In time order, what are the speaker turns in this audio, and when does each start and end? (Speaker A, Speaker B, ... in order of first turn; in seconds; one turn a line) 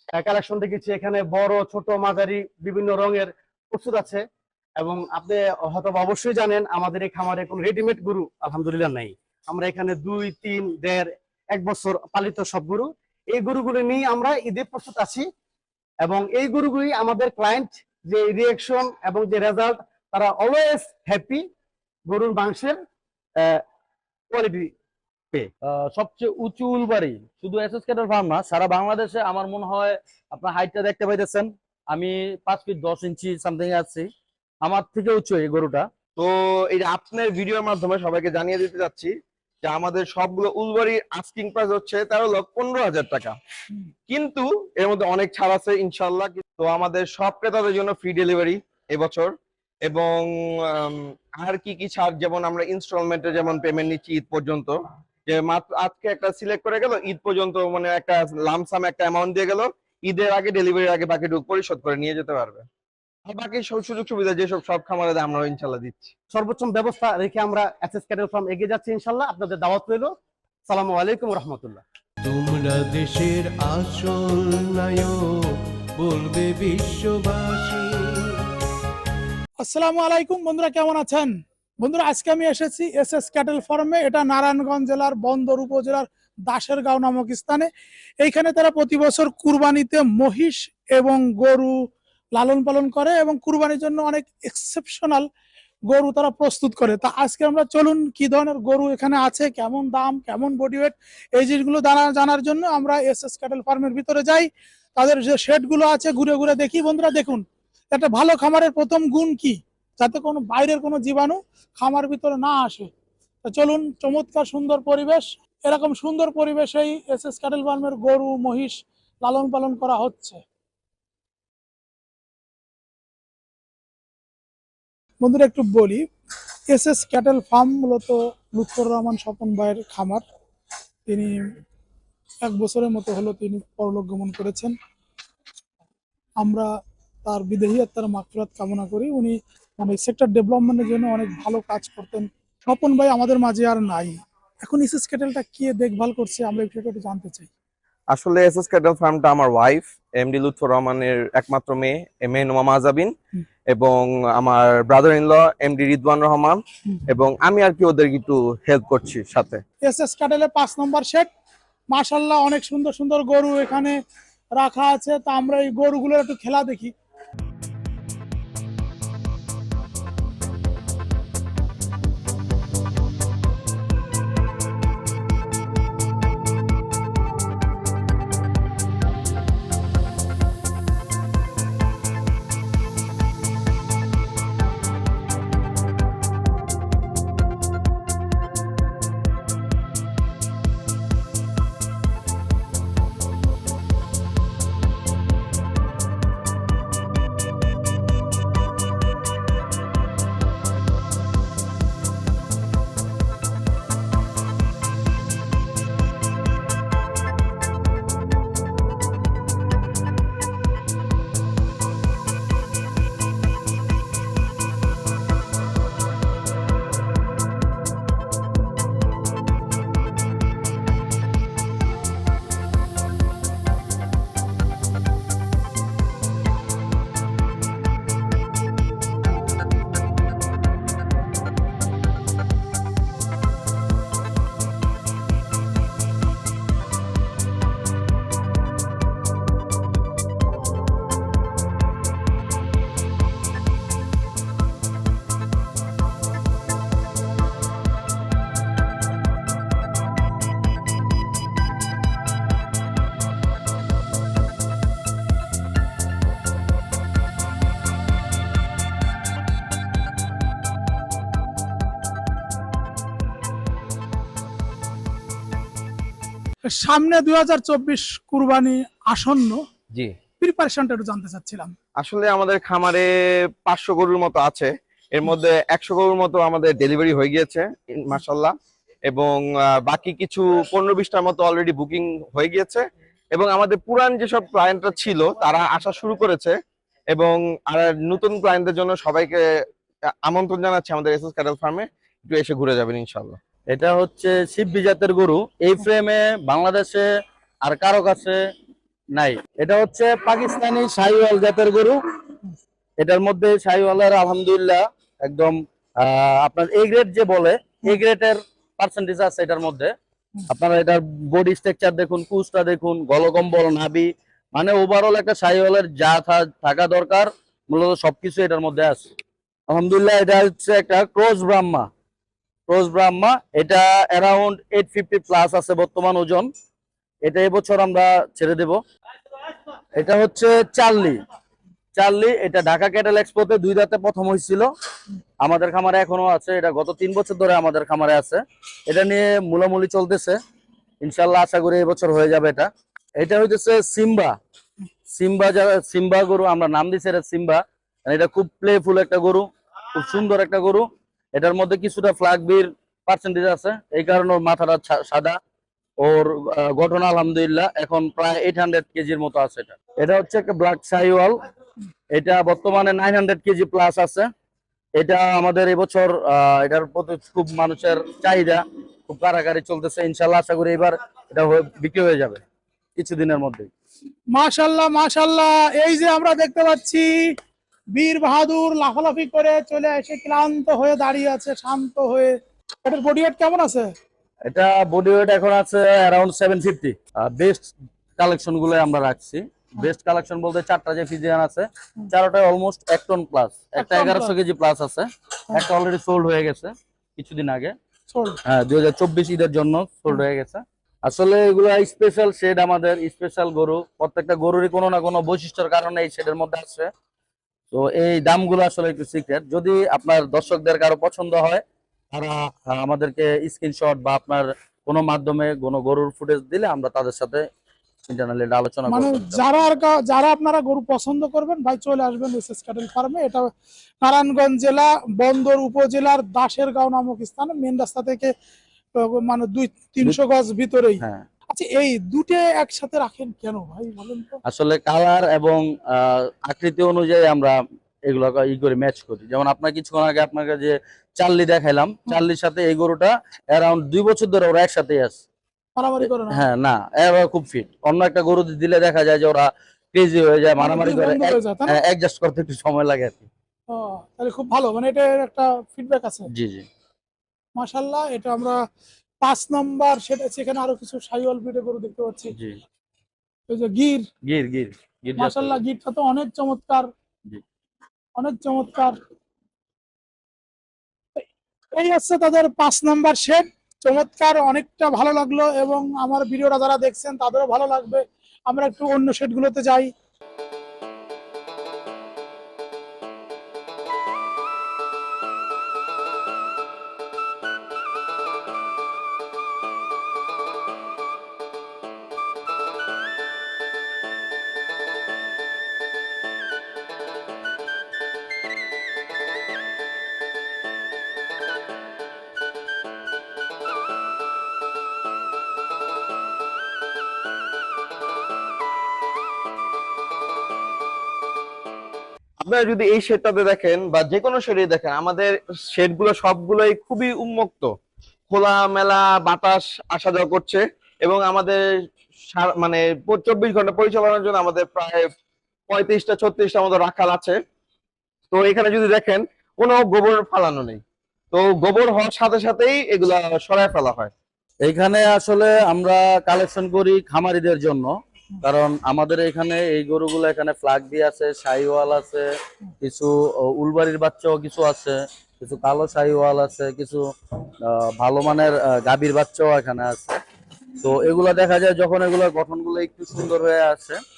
Speaker A: 0.2-4.2
Speaker A: 4.8-15.3
Speaker A: 16.0-21.4
Speaker A: 22.1-22.8
Speaker A: 24.3-24.7
Speaker B: 25.6-34.1
Speaker B: 34.6-35.9
Speaker C: 36.2-43.4
Speaker C: 44.1-49.3
Speaker C: 49.9-62.7
Speaker C: 63.3-66.1
Speaker A: 66.3-70.1
Speaker A: 70.7-71.8
Speaker D: 72.2-78.5
Speaker E: 79.6-87.7
Speaker E: 88.2-91.8
Speaker E: 92.3-95.3
Speaker E: 95.9-112.9
Speaker E: 113.4-120.4
Speaker E: 125.2-126.0
Speaker E: 126.7-130.2
Speaker E: 131.1-131.5
Speaker E: 132.4-134.8
Speaker E: 136.4-136.7
Speaker E: 137.3-147.5
Speaker C: 148.1-153.1
Speaker C: 153.7-159.6
Speaker E: 159.8-161.3
Speaker E: 161.9-164.0
Speaker E: 164.6-166.9
Speaker E: 266.7-269.6
Speaker E: 270.4-271.7
Speaker C: 272.0-273.1
Speaker C: 273.7-278.5
Speaker C: 279.1-282.8
Speaker C: 283.3-286.6
Speaker C: 287.1-289.4
Speaker C: 290.2-293.4
Speaker B: 293.7-297.1
Speaker B: 297.6-298.4
Speaker B: 299.1-302.0
Speaker B: 303.0-309.9
Speaker B: 310.5-319.1
Speaker B: 319.7-321.9
Speaker B: 322.7-326.5
Speaker B: 327.2-328.8
Speaker B: 330.0-331.2
Speaker B: 331.9-334.7
Speaker B: 335.4-340.4
Speaker B: 341.0-344.4
Speaker B: 345.1-355.4
Speaker B: 356.0-361.4
Speaker B: 362.1-364.3
Speaker B: 365.0-372.4
Speaker B: 373.0-373.7
Speaker E: 374.3-377.2
Speaker E: 377.9-383.9
Speaker B: 384.5-397.8
Speaker E: 393.8-394.3
Speaker E: 398.1-398.4
Speaker B: 398.4-406.9
Speaker B: 407.7-417.5
Speaker B: 418.1-419.5
Speaker E: 418.9-423.5
Speaker E: 424.0-428.3
Speaker E: 429.0-434.4
Speaker B: 431.0-431.3
Speaker B: 434.5-445.2
Speaker E: 445.8-446.4
Speaker B: 446.0-453.3
Speaker E: 450.6-451.8
Speaker E: 453.7-456.3
Speaker B: 456.3-456.7
Speaker E: 457.6-458.6
Speaker E: 459.2-462.3
Speaker B: 462.3-462.6
Speaker E: 463.5-464.1
Speaker B: 464.2-465.6
Speaker E: 465.2-466.9
Speaker E: 468.2-469.0
Speaker E: 471.2-479.9
Speaker C: 512.4-517.7
Speaker C: 518.3-521.6
Speaker C: 522.3-525.1
Speaker C: 525.7-527.4
Speaker C: 528.3-530.8
Speaker C: 531.3-534.1
Speaker B: 534.6-542.3
Speaker B: 542.8-547.1
Speaker B: 547.6-550.2
Speaker B: 550.8-554.0